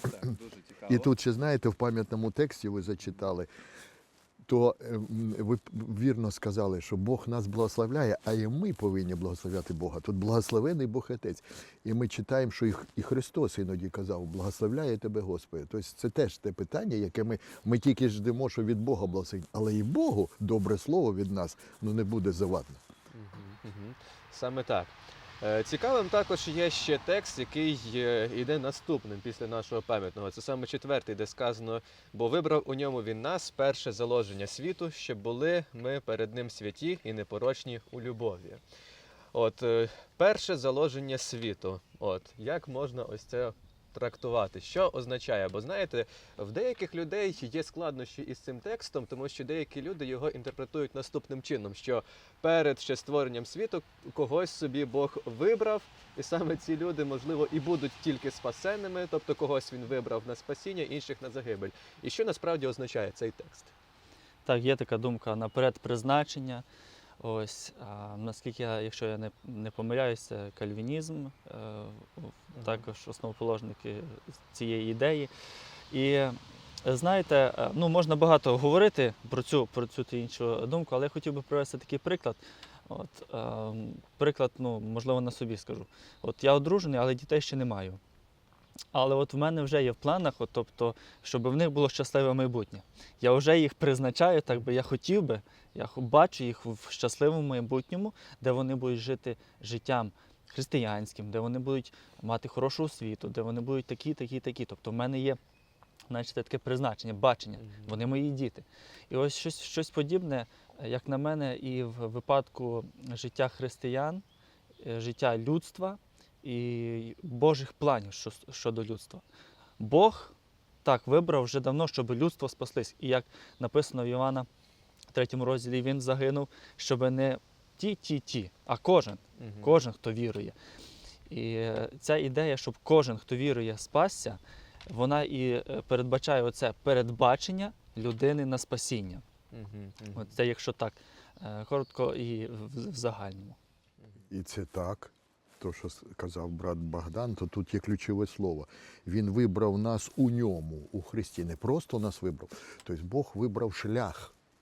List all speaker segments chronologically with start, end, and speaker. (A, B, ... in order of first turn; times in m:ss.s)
0:00.8-0:03.5 A
0:04.5-0:22.8 A
0:23.1-0:38.6 B
0:39.3-1:03.7 B
1:04.4-1:06.6 C
1:07.2-1:15.3 C
1:12.5-1:12.9 B
1:15.9-1:28.0 C
1:28.9-1:45.4 C
1:46.1-1:54.2 C
1:47.6-1:48.0 B
1:54.8-1:59.2 C
1:59.8-2:04.5 C
2:05.1-2:10.6 C
2:09.4-2:09.8 B
2:11.3-2:19.2 C
2:19.5-2:20.3 B
2:20.1-2:23.6 C
2:24.3-2:34.3 A